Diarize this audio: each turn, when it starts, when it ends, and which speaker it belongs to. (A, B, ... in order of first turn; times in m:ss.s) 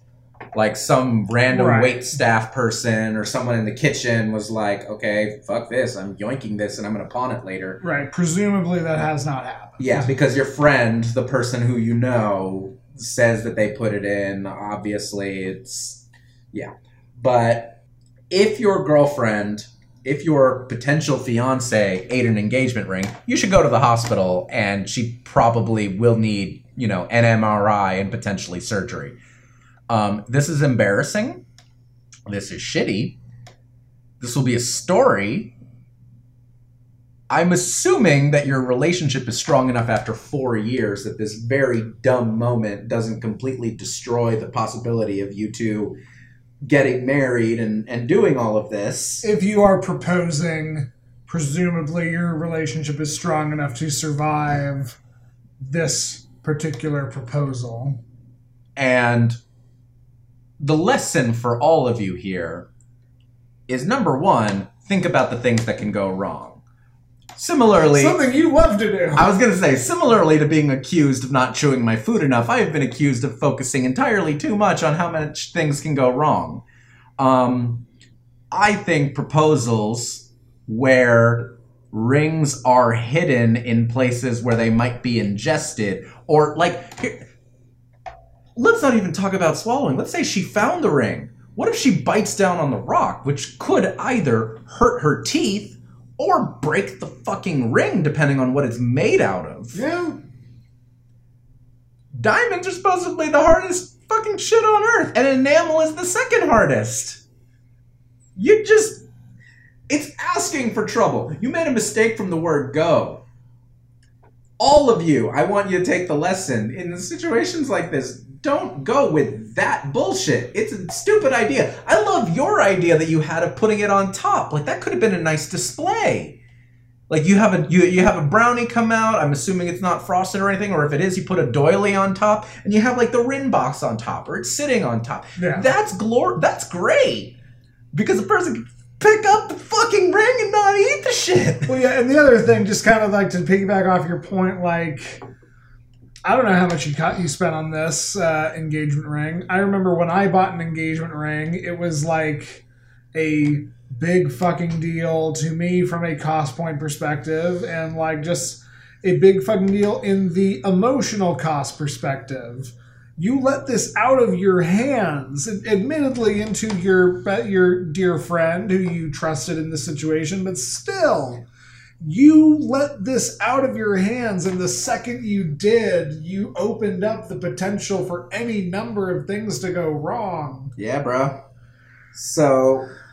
0:00.5-0:07.8 A
0:01.5-0:02.0 B
0:07.8-0:10.1 B
0:09.8-0:17.8 A
0:18.3-0:29.2 A
0:29.9-0:31.4 A
0:32.3-0:33.2 A
0:34.2-0:35.5 A
0:37.3-0:46.0 A
0:46.6-0:49.2 A
0:49.2-0:55.0 B
0:55.6-0:58.0 B
0:58.8-0:59.4 A
1:00.6-1:02.7 A
1:03.7-1:06.6 A
1:07.4-1:08.2 A
1:07.7-1:09.3 B
1:09.1-1:16.6 A
1:17.2-1:17.8 A
1:18.5-1:27.3 A
1:28.6-1:39.8 A
1:39.7-1:40.2 B
1:42.1-1:47.2 A
1:48.4-1:49.0 A
1:49.9-1:53.2 A
1:54.6-2:06.4 A
2:07.1-2:17.4 A
2:15.4-2:15.7 B
2:17.9-2:21.7 A
2:21.7-2:25.2 B
2:26.2-2:32.6 B
2:33.1-2:51.4 B
2:52.0-3:00.7 B
3:00.8-3:01.4 A
3:02.1-3:02.9 A